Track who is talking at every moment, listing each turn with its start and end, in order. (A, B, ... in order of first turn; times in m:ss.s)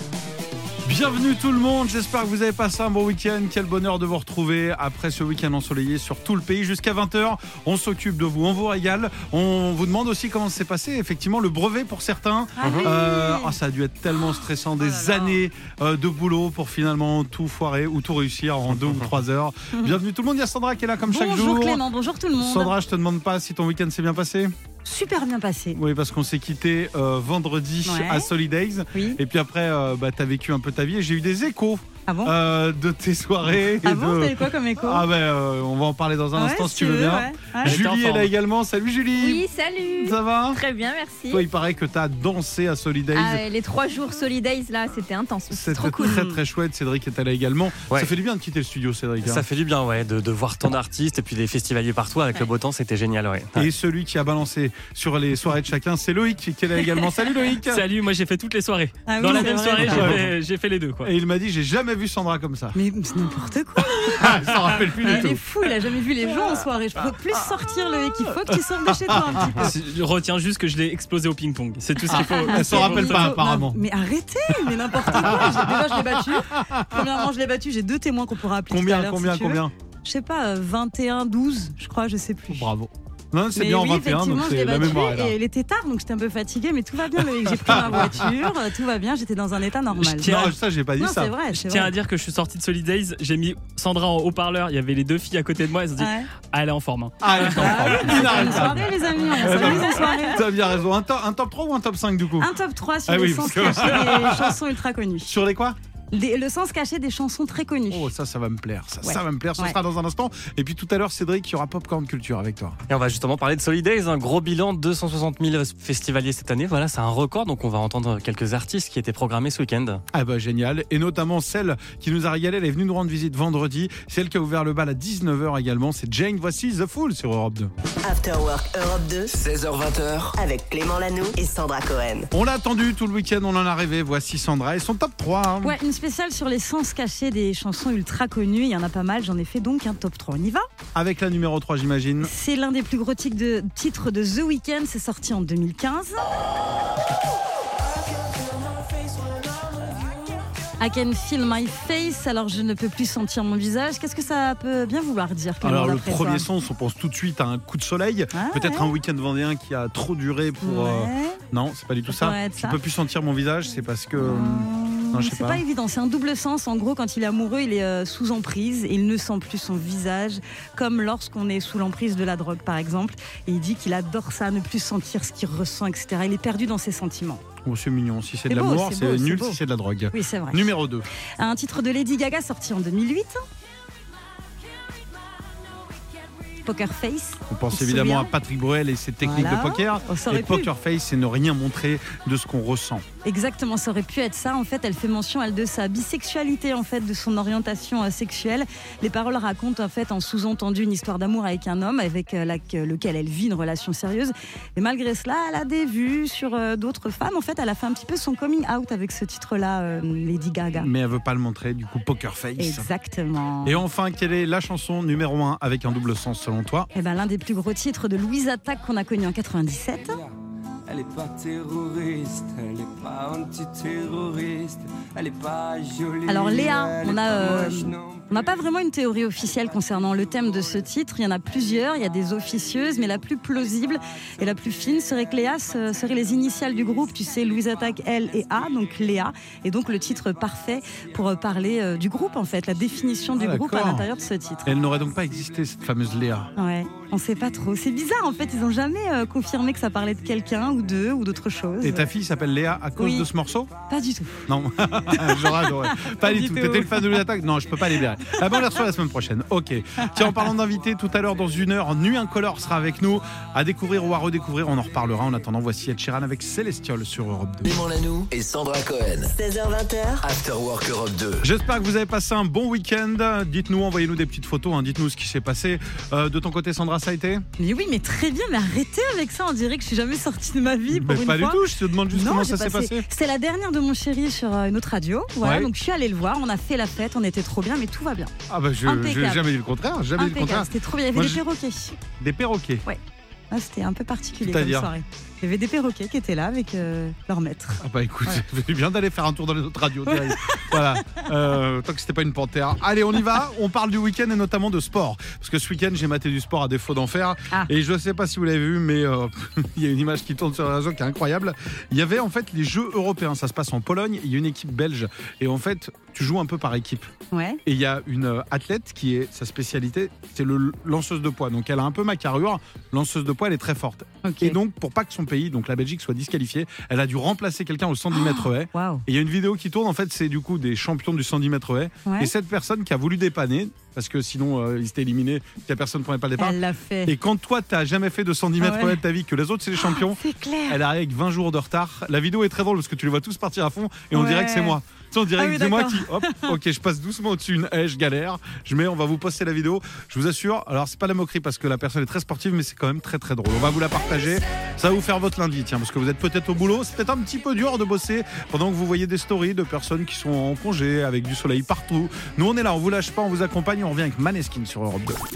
0:00.8-0:21.8 A
0:12.6-0:13.6 B
0:14.8-0:15.3 B
0:21.0-0:22.7 B
0:22.4-0:24.5 A
0:24.8-0:25.8 B
0:25.7-0:40.6 A
0:27.9-0:28.3 B
0:28.9-0:29.2 B
0:32.1-0:32.3 B
0:33.8-0:35.0 B
0:36.4-0:37.8 B
0:37.6-0:38.3 C
0:39.2-0:41.5 D
0:41.3-0:43.4 A
0:43.1-0:46.2 D
0:45.5-0:49.4 A
0:45.7-0:46.4 B
0:49.2-0:53.7 E
0:53.6-0:57.9 A
0:57.7-1:01.1 C
0:59.1-1:00.2 B
0:59.8-1:00.3 A
1:01.0-1:02.8 A
1:02.7-1:09.7 B
1:03.8-1:05.4 A
1:08.4-1:09.4 A
1:09.6-1:13.3 C
1:12.1-1:22.7 B
1:12.1-1:13.8 A
1:14.5-1:17.2 A
1:18.7-1:19.7 A
1:22.5-1:25.3 A
1:23.6-1:30.3 B
1:27.4-1:28.3 A
1:30.0-1:31.3 A
1:30.1-1:30.6 C
1:31.0-1:31.9 B
1:31.5-1:38.8 C
1:36.0-1:36.3 B
1:37.2-1:42.5 A
1:37.4-1:40.4 B
1:42.4-1:45.3 B
1:43.1-1:44.6 A
1:45.3-1:45.8 A
1:46.1-1:48.1 B
1:47.9-1:52.8 A
1:49.0-1:49.8 B
1:52.9-2:00.0 E
2:00.1-2:07.7 A
2:08.0-2:09.3 F
2:09.3-2:10.4 G
2:10.4-2:12.3 F
2:12.3-2:15.8 A
2:15.6-2:20.7 B
2:21.0-2:22.3 A
2:22.2-2:26.3 B
2:30.8-2:36.5 B
2:35.6-2:45.6 A
2:38.3-2:38.9 B
2:40.6-2:41.4 B
2:42.1-2:42.8 B
2:44.2-2:57.4 B
2:57.6-3:01.1 A
2:58.5-2:59.6 B
3:00.1-3:00.7 B
3:01.4-3:03.4 B
3:06.6-3:08.3 B
3:07.5-3:13.0 A
3:09.2-3:10.7 B
3:13.2-3:30.9 B
3:30.8-3:32.9 A
3:32.6-3:33.8 B
3:33.6-3:36.9 A
3:37.0-3:40.2 B
3:40.9-3:48.2 H
3:46.3-4:04.8 B
4:03.4-4:04.1 A
4:04.7-4:06.5 A
4:06.6-4:12.1 B
4:11.8-4:13.7 A
4:13.0-4:13.3 B
4:13.9-4:14.5 B
4:14.5-4:27.8 A
4:15.1-4:17.2 B
4:27.6-4:29.3 G
4:29.3-4:30.2 F
4:30.2-4:31.5 G
4:31.4-4:37.4 A
4:37.6-4:41.6 B
4:40.9-4:43.1 A
4:42.1-4:48.3 B
4:45.4-4:45.7 A
4:48.5-4:51.4 A
4:48.8-4:49.5 B
4:50.2-4:52.0 B
4:52.2-4:52.8 A
4:53.5-4:58.4 B
4:54.4-4:54.9 A
4:57.8-5:17.1 A
5:00.1-5:01.2 B
5:17.3-5:17.6 B
5:17.6-6:05.2 A
5:24.2-5:24.6 B
5:28.1-5:29.0 B
5:32.1-5:32.3 B
5:36.4-5:37.1 B
5:38.6-5:39.0 B
5:39.8-5:40.8 B
5:44.1-5:44.8 B
5:45.4-5:46.5 B